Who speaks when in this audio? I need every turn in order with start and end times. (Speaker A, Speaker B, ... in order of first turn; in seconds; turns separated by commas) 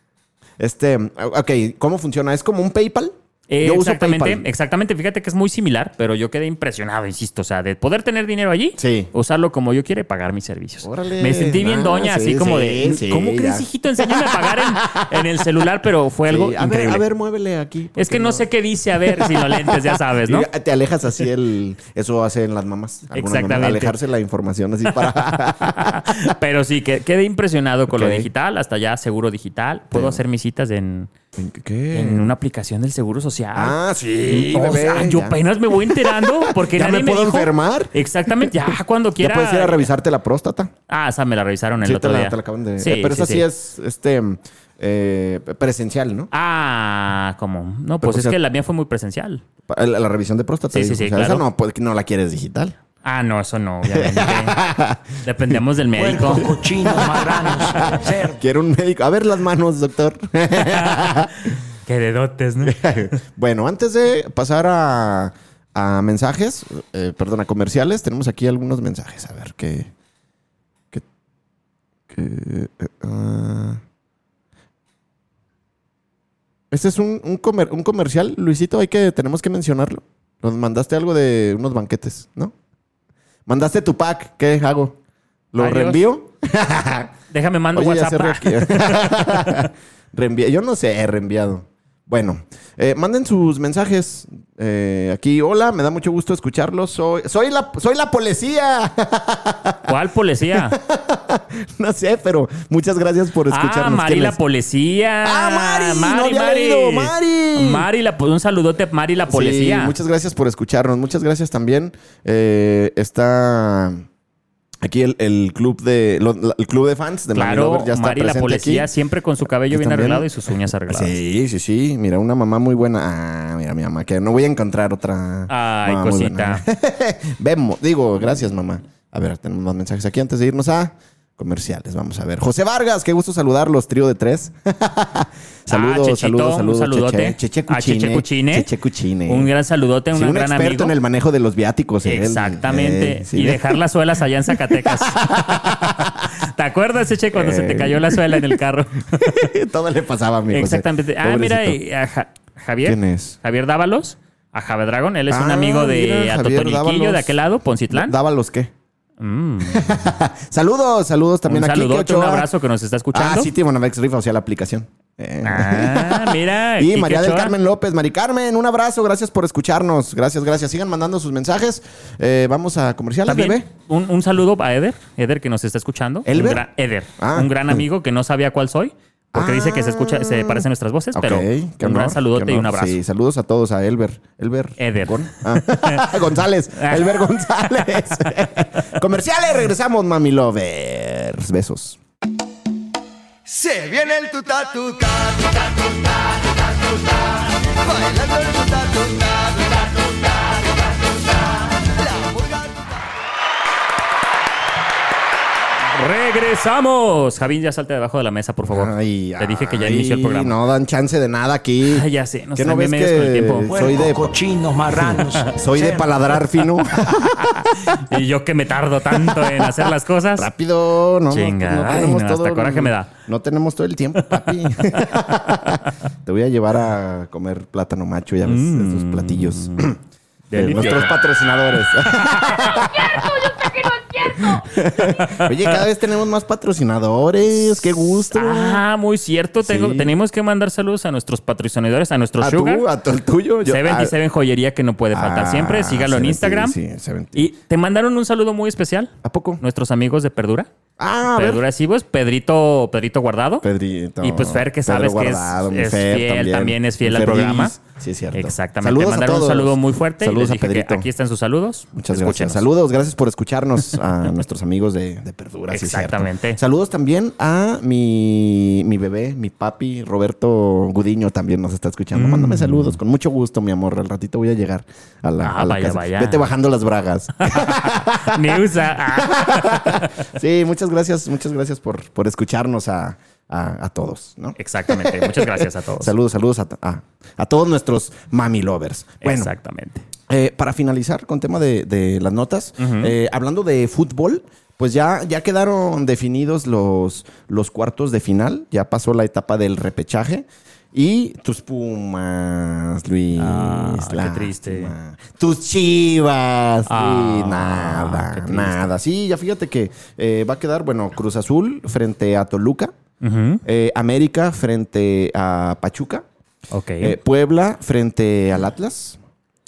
Speaker A: 0.6-4.5, Speaker B: 3.5-17.0, Speaker A: 8.8-9.1, Speaker A: 10.8-15.2, Speaker A: 16.3-18.5, Speaker B: 18.0-20.5, Speaker A: 19.0-26.1, Speaker B: 23.1-24.0, Speaker B: 24.9-31.1, Speaker A: 27.9-28.3, Speaker A: 29.9-30.2, Speaker A: 31.4-32.3, Speaker B: 31.9-39.9, Speaker A: 33.5-40.7, Speaker B: 40.9-43.5, Speaker A: 41.8-46.3, Speaker B: 46.3-49.4, Speaker A: 48.0-48.4, Speaker A: 49.7-52.8, Speaker B: 50.7-51.4, Speaker B: 53.0-54.6, Speaker A: 53.9-55.1, Speaker B: 55.2-56.5, Speaker C: 56.0-58.4, Speaker A: 56.1-61.5, Speaker B: 60.5-61.3, Speaker B: 61.9-62.8, Speaker A: 62.6-69.9, Speaker A: 72.1-73.8, Speaker A: 76.7-82.5, Speaker A: 83.5-85.0, Speaker A: 85.5-87.1, Speaker B: 85.6-86.0, Speaker B: 87.3-89.7, Speaker A: 87.7-99.8, Speaker B: 99.9-100.8, Speaker A: 100.5-104.4, Speaker B: 103.5-110.0, Speaker A: 105.2-107.9, Speaker A: 109.3-114.0, Speaker A: 114.8-118.9, Speaker B: 117.3-121.2, Speaker A: 119.6-120.3, Speaker A: 120.9-139.5, Speaker B: 125.5-126.6, Speaker B: 135.7-138.7, Speaker B: 139.3-140.9, Speaker A: 140.1-143.8, Speaker B: 142.0-149.4, Speaker A: 144.5-146.3, Speaker A: 147.3-148.6, Speaker A: 149.1-151.8, Speaker B: 150.5-158.1, Speaker A: 152.8-153.4, Speaker A: 155.3-157.4, Speaker A: 157.9-158.7, Speaker B: 159.2-160.0, Speaker A: 159.7-162.5, Speaker B: 161.5-163.5, Speaker A: 163.1-173.7, Speaker B: 165.4-167.6, Speaker B: 173.3-183.0, Speaker A: 176.2-176.7, Speaker A: 177.2-177.8, Speaker A: 179.3-192.0, Speaker B: 184.8-186.2, Speaker B: 186.8-187.1, Speaker D: 193.5-202.9, Speaker B: 205.9-210.5, Speaker A: 208.7-214.3, Speaker B: 211.9-213.7, Speaker C: 213.7-216.2, Speaker A: 215.6-218.0, Speaker B: 217.6-220.5, Speaker A: 219.2-230.0, Speaker B: 221.3-223.1, Speaker B: 228.4-229.9, Speaker B: 230.5-231.2, Speaker A: 230.5-233.7, Speaker B: 232.1-233.4, Speaker A: 234.2-238.8, Speaker B: 234.2-235.7, Speaker B: 238.3-242.9, Speaker A: 239.6-240.1, Speaker A: 242.4-244.1, Speaker B: 243.7-246.8, Speaker A: 245.1-247.5, Speaker B: 247.3-250.7, Speaker A: 249.2-249.6, Speaker A: 251.0-251.6, Speaker B: 251.3-253.7, Speaker A: 253.6-261.1, Speaker B: 254.2-257.8, Speaker B: 258.3-262.7, Speaker A: 262.0-289.5, Speaker B: 265.7-266.6, Speaker B: 272.1-273.0, Speaker B: 275.4-276.5, Speaker B: 277.5-280.1, Speaker B: 284.6-286.1, Speaker B: 289.2-290.1, Speaker A: 290.3-312.9, Speaker B: 292.8-293.1, Speaker B: 303.4-304.9, Speaker B: 306.9-308.9, Speaker B: 313.2-313.6, Speaker A: 313.6-316.2, Speaker B: 316.7-317.1, Speaker A: 317.0-319.2